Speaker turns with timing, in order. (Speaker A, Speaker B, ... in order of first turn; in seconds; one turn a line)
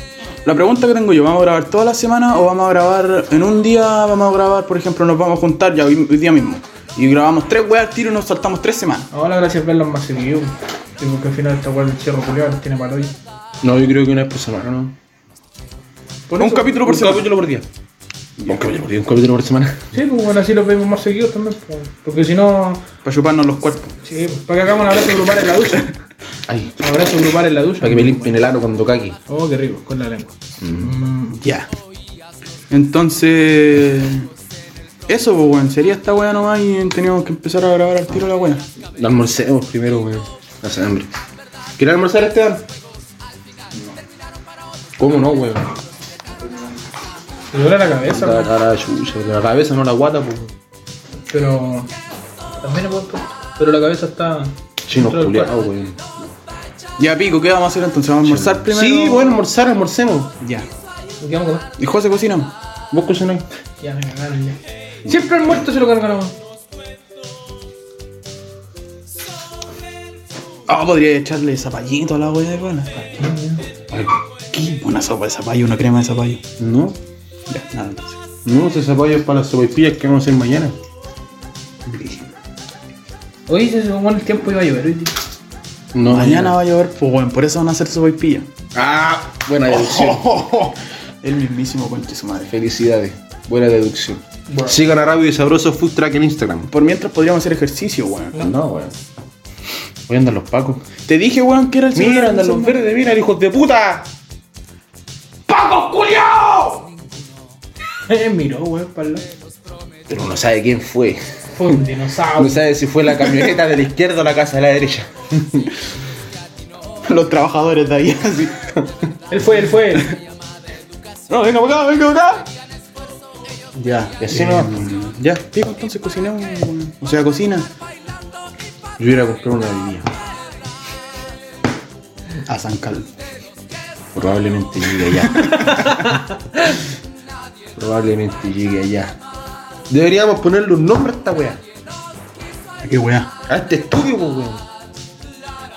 Speaker A: 0.4-9.1
Speaker B: 9.1-13.1
Speaker C: 13.6-14.9
Speaker B: 16.3-16.8
Speaker A: 16.4-17.3
Speaker C: 16.8-17.7
Speaker C: 18.4-19.9
Speaker B: 19.9-22.8
Speaker A: 23.0-23.9
Speaker B: 24.0-25.9
Speaker C: 26.5-26.8
Speaker B: 26.8-28.4
Speaker C: 27.8-29.2
Speaker B: 29.3-31.4
Speaker C: 30.6-30.9
Speaker A: 31.4-31.7
Speaker A: 32.7-34.3
Speaker A: 35.1-38.6
Speaker C: 39.0-41.1
Speaker C: 41.8-42.6
Speaker C: 45.0-45.7
Speaker B: 47.5-48.5
Speaker C: 48.1-50.5
Speaker B: 51.3-51.9
Speaker B: 52.6-55.6
Speaker C: 54.9-56.0
Speaker A: 57.0-59.4
Speaker C: 58.2-60.4
Speaker A: 60.4-60.6
Speaker B: 61.2-61.7
Speaker A: 61.8-62.5
Speaker C: 62.9-63.5
Speaker B: 63.8-66.3
Speaker A: 70.7-72.9
Speaker B: 73.0-73.6
Speaker C: 73.9-74.2
Speaker A: 74.5-76.4
Speaker C: 76.6-77.0
Speaker A: 77.5-78.2
Speaker C: 78.4-80.8
Speaker A: 81.9-82.2
Speaker B: 83.5-85.1
Speaker C: 85.9-86.6
Speaker A: 86.1-88.5
Speaker C: 88.7-90.4
Speaker A: 89.7-92.5
Speaker C: 92.5-96.7
Speaker B: 94.5-94.8
Speaker A: 96.7-98.3
Speaker C: 98.3-98.9
Speaker C: 100.1-100.8
Speaker A: 101.1-102.8
Speaker C: 101.9-104.1
Speaker B: 105.5-106.9
Speaker B: 108.1-109.2
Speaker C: 110.1-111.2
Speaker B: 111.5-112.6
Speaker C: 112.3-115.7
Speaker A: 117.1-118.7
Speaker B: 119.3-120.1
Speaker A: 121.3-122.5
Speaker A: 123.8-127.7
Speaker C: 124.2-124.9
Speaker C: 129.0-130.1
Speaker A: 132.4-133.1
Speaker C: 134.1-136.0
Speaker A: 135.4-136.0
Speaker C: 137.7-139.2
Speaker C: 139.9-141.6
Speaker A: 142.8-143.3
Speaker C: 143.5-144.6